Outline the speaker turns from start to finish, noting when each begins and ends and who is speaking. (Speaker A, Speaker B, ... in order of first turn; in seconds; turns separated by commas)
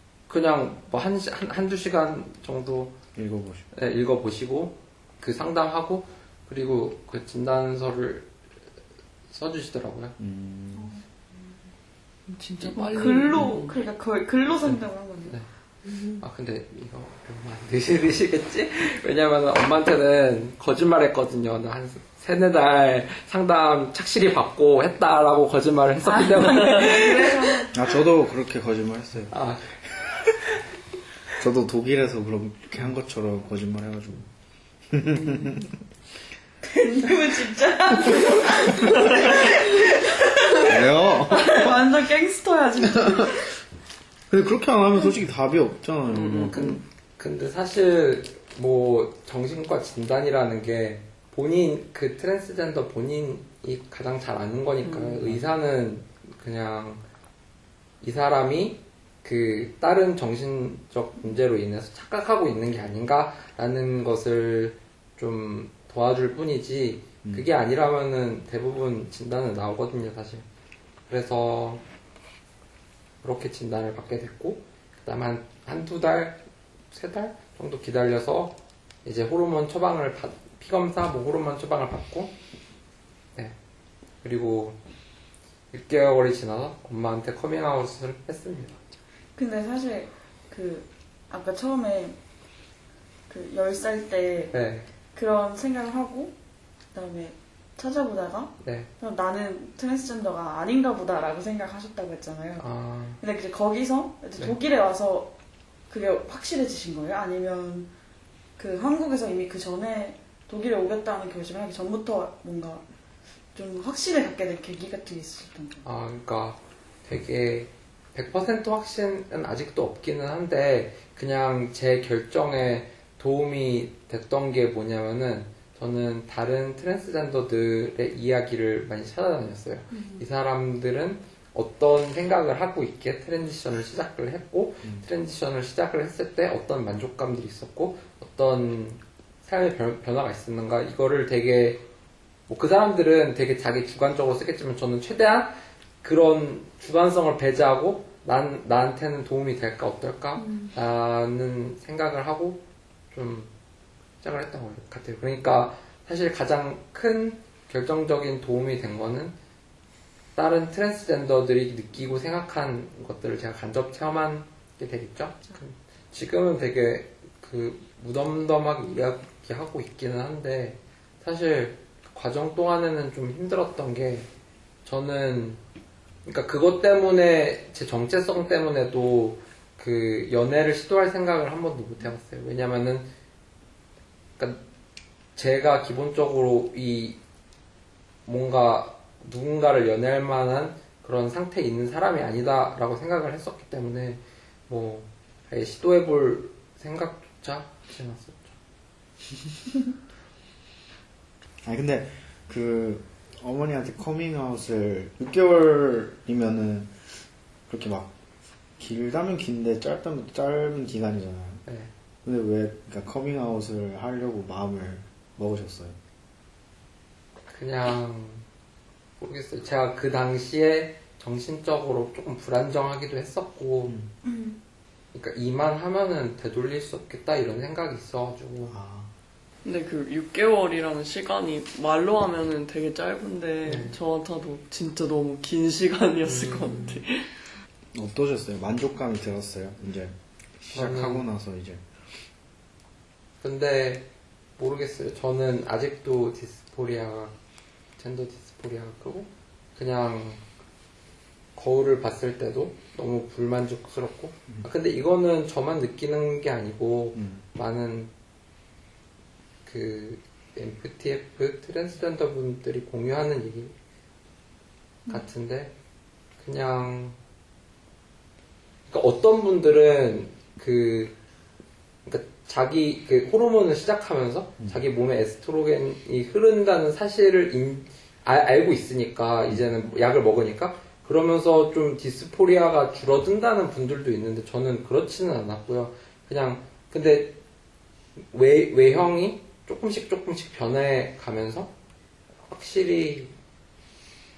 Speaker A: 0.3-3.0, Speaker B: 3.1-3.7, Speaker A: 3.7-8.3, Speaker A: 9.3-10.2, Speaker B: 10.2-11.0, Speaker C: 12.3-13.8, Speaker D: 12.7-15.3, Speaker A: 14.6-15.5, Speaker A: 16.2-27.7, Speaker D: 26.0-27.8, Speaker B: 27.7-29.4, Speaker A: 29.3-29.6, Speaker B: 31.4-34.3, Speaker B: 34.9-35.8, Speaker C: 35.1-35.6, Speaker D: 36.6-43.5, Speaker B: 38.1-39.2, Speaker B: 40.6-41.8, Speaker B: 42.8-43.4, Speaker B: 44.3-46.8, Speaker C: 46.1-46.6, Speaker A: 46.5-57.0, Speaker C: 54.8-55.4, Speaker A: 58.0-70.5, Speaker A: 71.1-71.8, Speaker A: 73.2-82.3, Speaker A: 84.2-84.8, Speaker A: 85.7-88.8, Speaker D: 89.4-92.2, Speaker D: 93.3-94.5, Speaker A: 94.5-94.9, Speaker D: 95.1-96.3, Speaker D: 96.9-102.7, Speaker A: 98.6-98.9, Speaker A: 102.6-103.2, Speaker D: 103.2-105.3, Speaker D: 105.9-107.9, Speaker D: 108.6-112.8, Speaker D: 113.5-115.8, Speaker A: 115.8-141.8, Speaker A: 142.5-153.5, Speaker D: 150.4-150.7, Speaker A: 154.2-159.3, Speaker A: 160.4-174.3, Speaker A: 174.8-175.6, Speaker A: 176.2-183.1, Speaker A: 184.4-184.6, Speaker A: 185.4-187.2, Speaker A: 188.3-198.6, Speaker B: 201.6-207.0, Speaker B: 207.7-208.2, Speaker B: 208.8-211.6, Speaker B: 212.2-216.0, Speaker A: 217.5-218.4, Speaker A: 219.2-224.0, Speaker D: 224.3-224.5, Speaker A: 225.1-228.8, Speaker B: 228.7-229.1, Speaker C: 229.6-237.3, Speaker A: 233.7-234.0, Speaker A: 236.2-237.0, Speaker B: 237.9-241.8, Speaker A: 240.7-241.2, Speaker A: 243.4-247.3, Speaker A: 248.0-250.4, Speaker A: 251.6-258.1, Speaker B: 257.2-257.5, Speaker A: 259.6-263.8, Speaker A: 265.1-265.7, Speaker A: 266.4-267.2, Speaker A: 268.9-271.2, Speaker A: 272.1-287.4, Speaker A: 288.2-291.7, Speaker A: 292.5-293.4